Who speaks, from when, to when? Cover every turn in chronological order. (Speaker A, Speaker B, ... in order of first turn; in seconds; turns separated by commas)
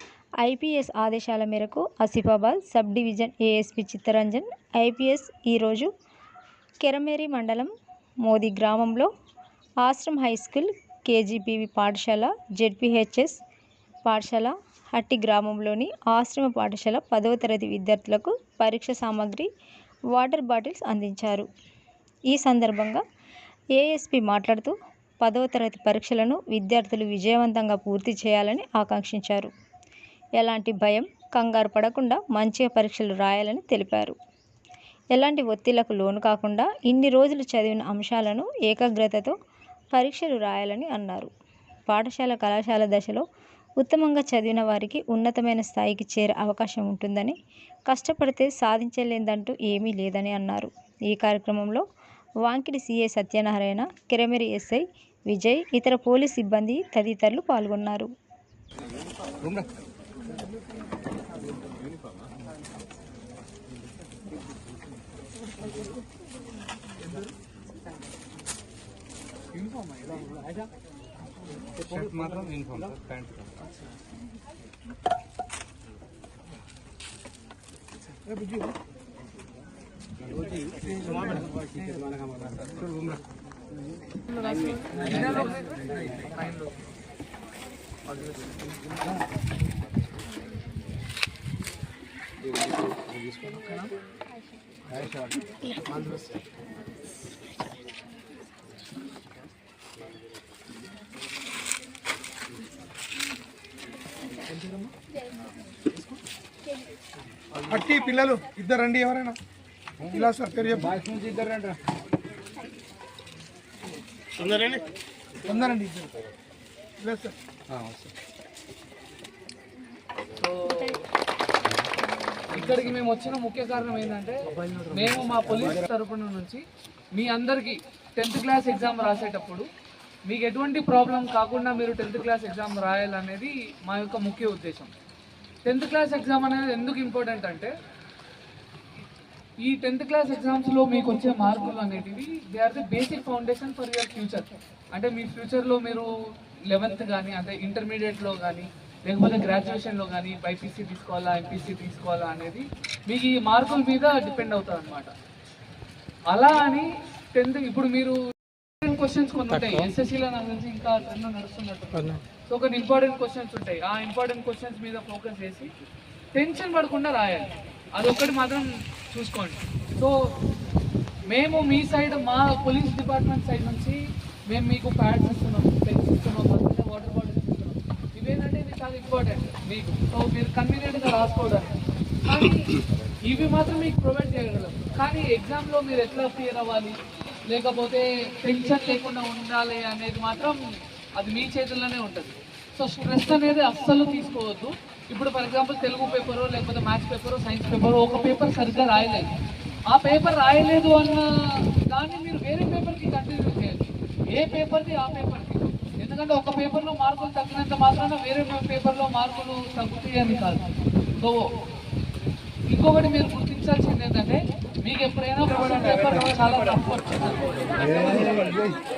Speaker A: 0.4-5.9, Speaker A: 6.8-7.7, Speaker A: 8.2-9.1, Speaker A: 9.8-13.4, Speaker A: 14.1-19.5, Speaker A: 20.1-21.5, Speaker A: 22.3-23.0, Speaker A: 23.8-29.5, Speaker A: 30.4-34.1, Speaker A: 35.1-39.3, Speaker A: 39.9-41.3, Speaker A: 41.9-43.2, Speaker A: 43.8-51.8, Speaker A: 52.4-58.1, Speaker B: 59.4-59.7, Speaker B: 71.8-73.5, Speaker B: 80.3-83.2, Speaker C: 84.3-86.8, Speaker B: 84.9-86.1, Speaker C: 88.1-88.7, Speaker C: 93.4-93.9, Speaker B: 94.9-95.4, Speaker C: 95.8-96.3, Speaker C: 104.5-104.9, Speaker D: 107.7-109.4, Speaker D: 110.1-110.9, Speaker B: 110.9-111.8, Speaker D: 115.4-116.1, Speaker D: 117.0-117.3, Speaker B: 117.7-118.1, Speaker C: 120.4-121.0, Speaker C: 122.5-129.7, Speaker C: 130.3-134.9, Speaker C: 135.6-137.7, Speaker C: 139.6-146.1, Speaker C: 146.7-155.1, Speaker C: 156.3-158.2, Speaker C: 158.8-165.7, Speaker C: 166.3-170.4, Speaker C: 171.3-187.0, Speaker C: 187.5-190.6, Speaker C: 191.2-199.3, Speaker C: 199.9-210.7, Speaker C: 211.2-211.5, Speaker C: 212.7-218.5, Speaker B: 218.1-218.6